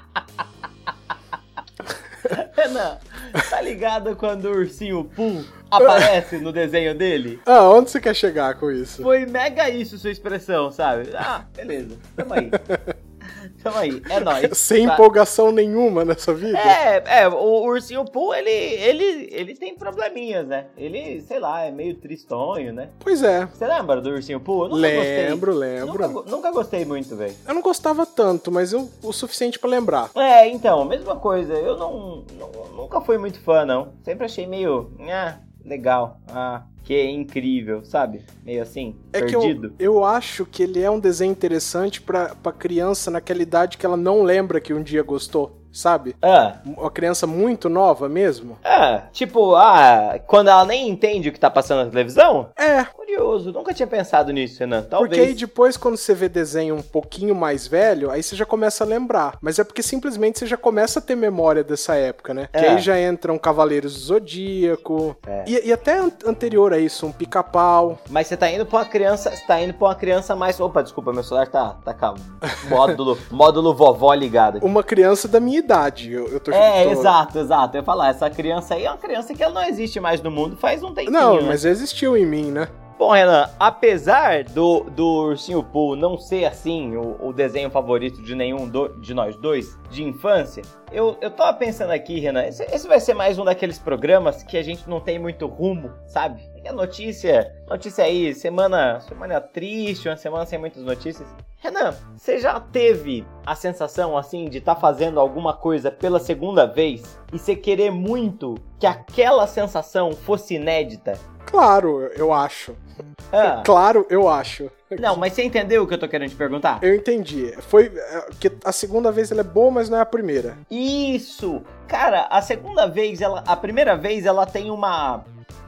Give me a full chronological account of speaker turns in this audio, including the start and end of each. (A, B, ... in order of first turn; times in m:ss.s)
0:02.2-0:07.4 A
0:05.8-0:06.1 B
0:07.4-0:09.1 B
0:09.0-0:12.6 A
0:12.5-0:12.9 B
0:13.3-0:15.0 A
0:14.1-0:16.8 B
0:16.5-0:22.9 A
0:23.0-0:23.5 B
0:23.6-0:27.4 A
0:24.7-0:26.2 B
0:27.4-0:30.1 B
0:30.1-0:39.7 A
0:39.1-0:48.6 B
0:46.2-0:46.6 A
0:48.6-0:55.4 A
0:52.6-0:52.9 B
0:55.0-1:08.0 B
1:02.5-1:02.9 A
1:05.2-1:05.5 A
1:08.1-1:14.6 A
1:14.6-1:17.1 B
1:16.5-1:21.6 A
1:21.1-1:22.7 B
1:23.0-1:51.2 A
1:51.4-1:52.8 B
1:53.3-1:53.7 A
1:53.4-1:55.2 B
1:55.0-1:56.8 A
1:56.8-2:00.6 B
2:00.7-2:05.2 A